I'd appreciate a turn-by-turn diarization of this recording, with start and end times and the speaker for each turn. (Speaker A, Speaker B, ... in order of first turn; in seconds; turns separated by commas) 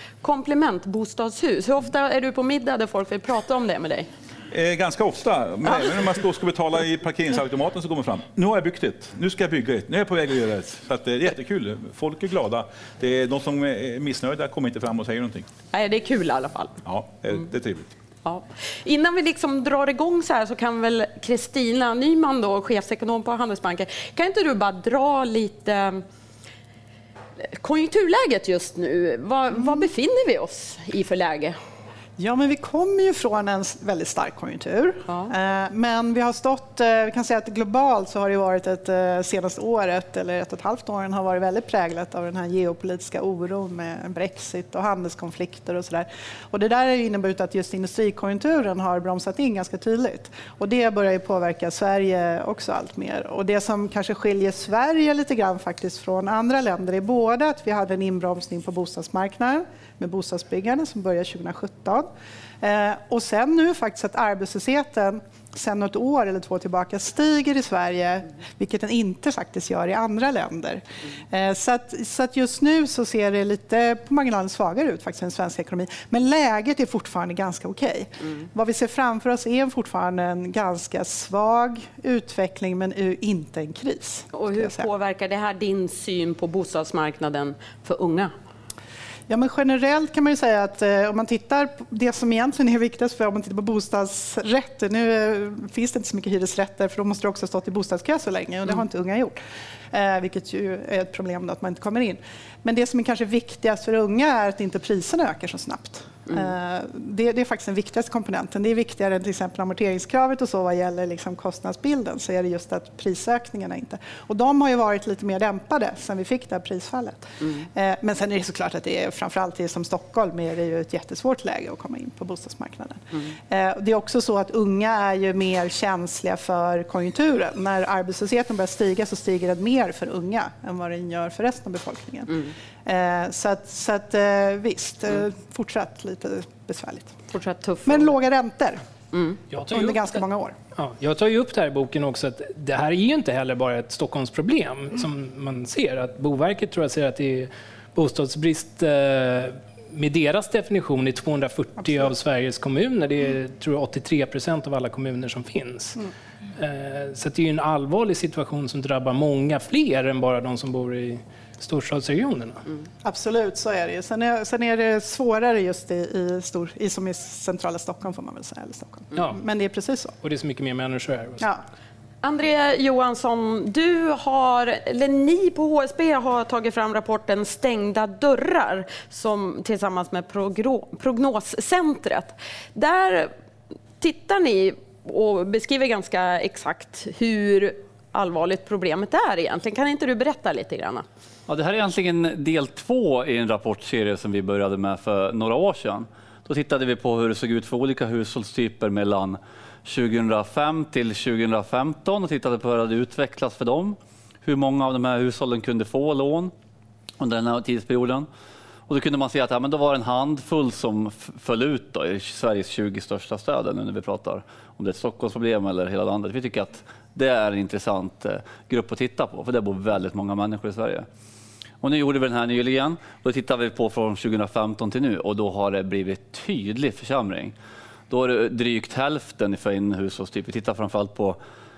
Speaker A: 0.2-4.1, Speaker B: 4.5-15.5, Speaker A: 15.7-16.8, Speaker B: 16.9-17.9, Speaker A: 18.2-26.0, Speaker A: 27.6-31.6, Speaker C: 29.6-29.9, Speaker C: 32.2-62.1, Speaker C: 62.6-84.9, Speaker A: 84.3-88.3, Speaker C: 89.3-99.4, Speaker C: 99.9-137.2, Speaker A: 137.3-138.2, Speaker C: 137.8-138.8, Speaker A: 139.1-139.4, Speaker D: 139.5-140.2, Speaker C: 139.7-140.6, Speaker D: 140.8-156.0, Speaker D: 156.6-162.6, Speaker C: 163.0-170.1, Speaker D: 170.2-171.5, Speaker A: 172.2-183.3, Speaker A: 184.0-191.1, Speaker E: 191.5-206.5, Speaker E: 207.2-208.3, Speaker E: 208.9-221.1, Speaker E: 221.8-227.5, Speaker E: 228.1-231.4